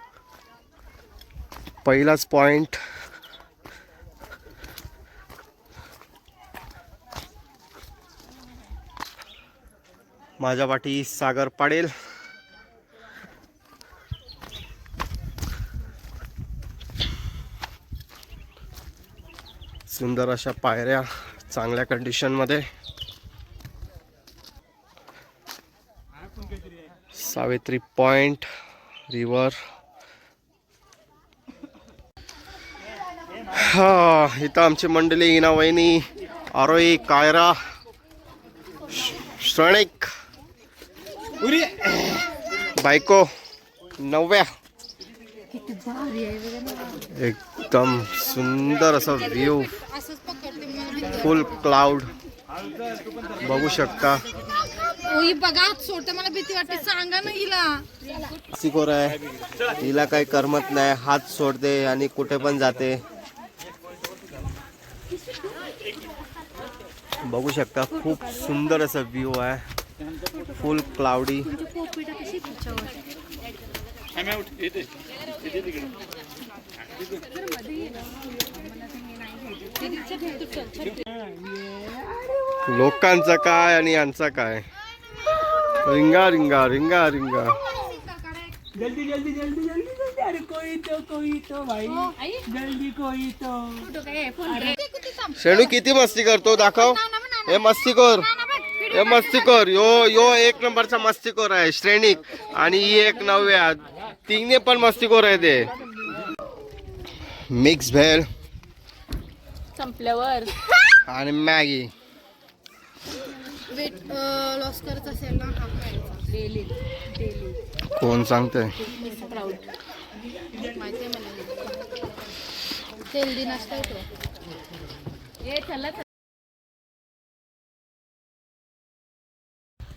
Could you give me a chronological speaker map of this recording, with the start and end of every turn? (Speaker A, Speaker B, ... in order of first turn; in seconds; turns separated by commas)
Speaker A: 1.8-2.8, Speaker A: 10.4-11.9, Speaker A: 19.9-22.7, Speaker A: 27.1-28.5, Speaker A: 29.1-29.6, Speaker A: 33.5-37.6, Speaker A: 39.2-40.1, Speaker B: 41.4-42.2, Speaker A: 42.8-43.3, Speaker A: 44.0-44.5, Speaker C: 45.5-47.0, Speaker A: 47.1-49.7, Speaker C: 49.5-51.5, Speaker A: 51.1-52.1, Speaker A: 53.4-54.2, Speaker C: 55.0-57.9, Speaker A: 58.5-59.1, Speaker A: 59.8-63.0, Speaker A: 67.2-69.6, Speaker A: 70.5-71.5, Speaker C: 71.5-73.0, Speaker B: 74.1-74.9, Speaker C: 79.8-80.7, Speaker D: 79.8-80.9, Speaker B: 80.9-82.4, Speaker A: 82.7-84.6, Speaker A: 85.8-87.6, Speaker C: 87.6-88.5, Speaker B: 88.7-93.9, Speaker C: 91.9-92.1, Speaker D: 92.2-92.4, Speaker D: 93.8-94.8, Speaker C: 94.6-95.7, Speaker A: 95.4-98.3, Speaker C: 96.6-99.5, Speaker A: 98.9-105.7, Speaker A: 107.5-108.3, Speaker D: 109.7-110.5, Speaker A: 111.1-111.9, Speaker C: 113.7-116.3, Speaker D: 116.3-117.5, Speaker A: 118.0-118.8, Speaker C: 118.8-119.6, Speaker C: 120.6-121.7, Speaker C: 123.1-124.0, Speaker D: 125.4-126.0